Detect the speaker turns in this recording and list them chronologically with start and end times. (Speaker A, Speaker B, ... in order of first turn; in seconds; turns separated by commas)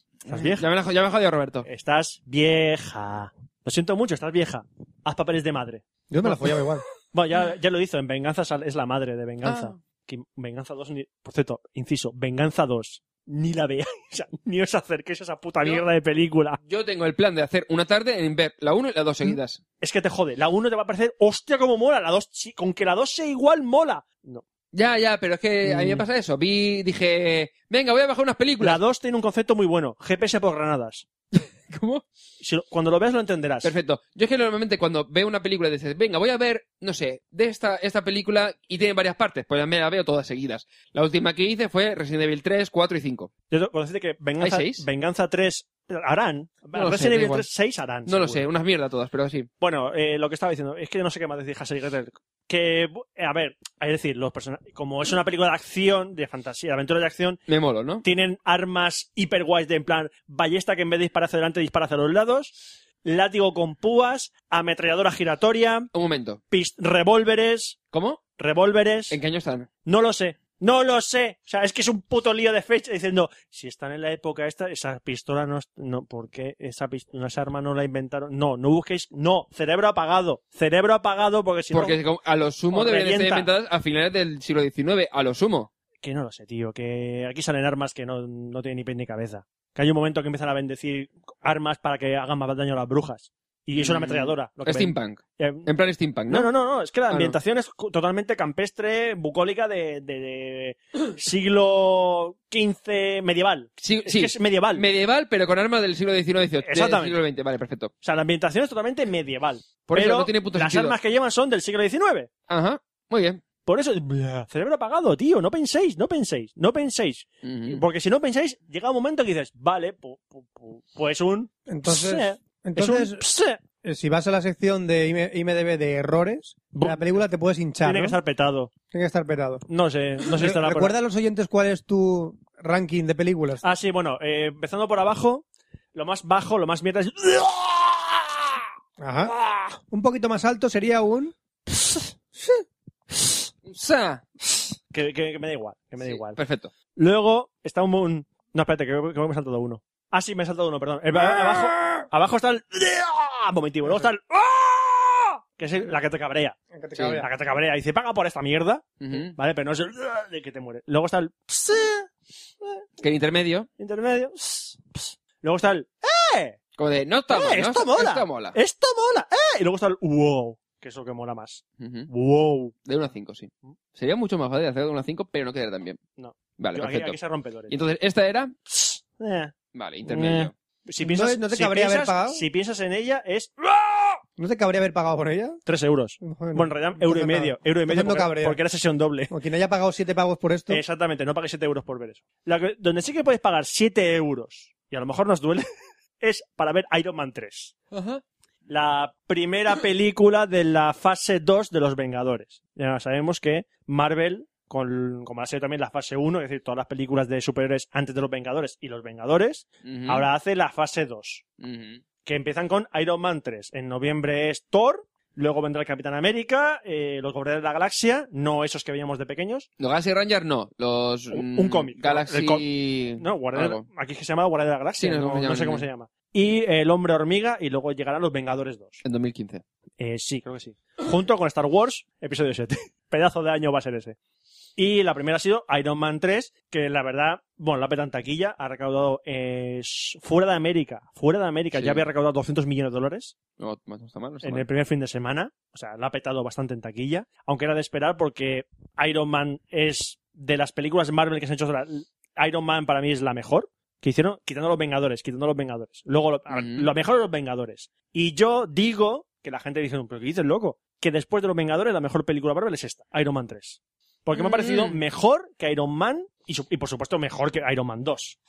Speaker A: 0.2-1.6, Speaker B: 0.3-0.7, Speaker B: 1.6-6.6, Speaker C: 6.1-6.8, Speaker B: 7.1-16.6, Speaker A: 9.4-9.7, Speaker A: 16.6-19.6, Speaker B: 19.2-24.4, Speaker A: 24.7-28.8, Speaker B: 25.6-26.0, Speaker B: 28.6-31.1, Speaker A: 31.3-32.0, Speaker B: 32.4-33.7, Speaker A: 33.6-43.3, Speaker B: 43.5-48.5, Speaker A: 44.4-44.8, Speaker A: 46.7-47.5, Speaker A: 48.0-49.5, Speaker B: 49.6-57.4, Speaker A: 57.5-58.0, Speaker B: 58.0-65.9, Speaker A: 65.9-66.4, Speaker B: 66.5-67.8, Speaker A: 67.9-68.2, Speaker B: 68.4-69.2, Speaker A: 69.1-69.7, Speaker B: 69.8-82.0, Speaker A: 81.7-85.7, Speaker B: 82.7-83.5, Speaker B: 86.0-95.7, Speaker A: 93.8-96.5, Speaker B: 96.3-104.9, Speaker A: 97.1-97.3, Speaker A: 103.8-107.9, Speaker B: 106.6-107.2, Speaker B: 108.0-112.3, Speaker A: 109.9-111.0, Speaker A: 112.5-113.4, Speaker B: 113.7-123.6, Speaker A: 117.4-117.8, Speaker C: 121.7-123.2, Speaker C: 123.8-128.2, Speaker B: 126.7-127.2, Speaker B: 127.8-128.7, Speaker C: 128.9-129.6, Speaker B: 129.7-130.9, Speaker C: 130.3-133.6, Speaker B: 133.6-138.4, Speaker C: 139.0-139.3, Speaker C: 139.9-141.3, Speaker B: 141.7-142.6, Speaker A: 143.7-144.2, Speaker B: 144.9-146.4, Speaker A: 146.0-146.7, Speaker B: 146.9-156.6, Speaker C: 156.7-157.3, Speaker A: 156.9-157.2, Speaker B: 157.2-162.1, Speaker A: 159.0-159.3, Speaker A: 163.0-163.7, Speaker B: 163.8-166.6, Speaker A: 166.8-168.6, Speaker B: 167.3-172.7, Speaker A: 171.8-172.1, Speaker A: 172.8-176.0, Speaker B: 176.2-177.8, Speaker A: 176.6-177.2, Speaker A: 177.7-178.5, Speaker B: 178.7-179.5, Speaker A: 179.7-180.5, Speaker B: 180.0-184.2, Speaker C: 181.0-182.4, Speaker C: 184.4-185.6, Speaker B: 185.7-189.3, Speaker C: 186.2-188.6, Speaker C: 189.3-190.8, Speaker B: 190.7-195.7, Speaker B: 196.2-197.8, Speaker A: 197.9-198.2, Speaker B: 198.7-211.4, Speaker A: 209.8-210.2, Speaker A: 211.6-212.0, Speaker B: 212.2-219.7, Speaker A: 219.8-223.8, Speaker B: 221.3-222.6, Speaker B: 223.2-229.0, Speaker A: 224.9-225.8, Speaker A: 229.0-229.6, Speaker B: 230.0-234.2, Speaker B: 234.8-243.3, Speaker A: 241.7-242.0, Speaker A: 243.6-244.7, Speaker B: 244.4-268.4, Speaker A: 256.5-256.9, Speaker A: 264.3-265.0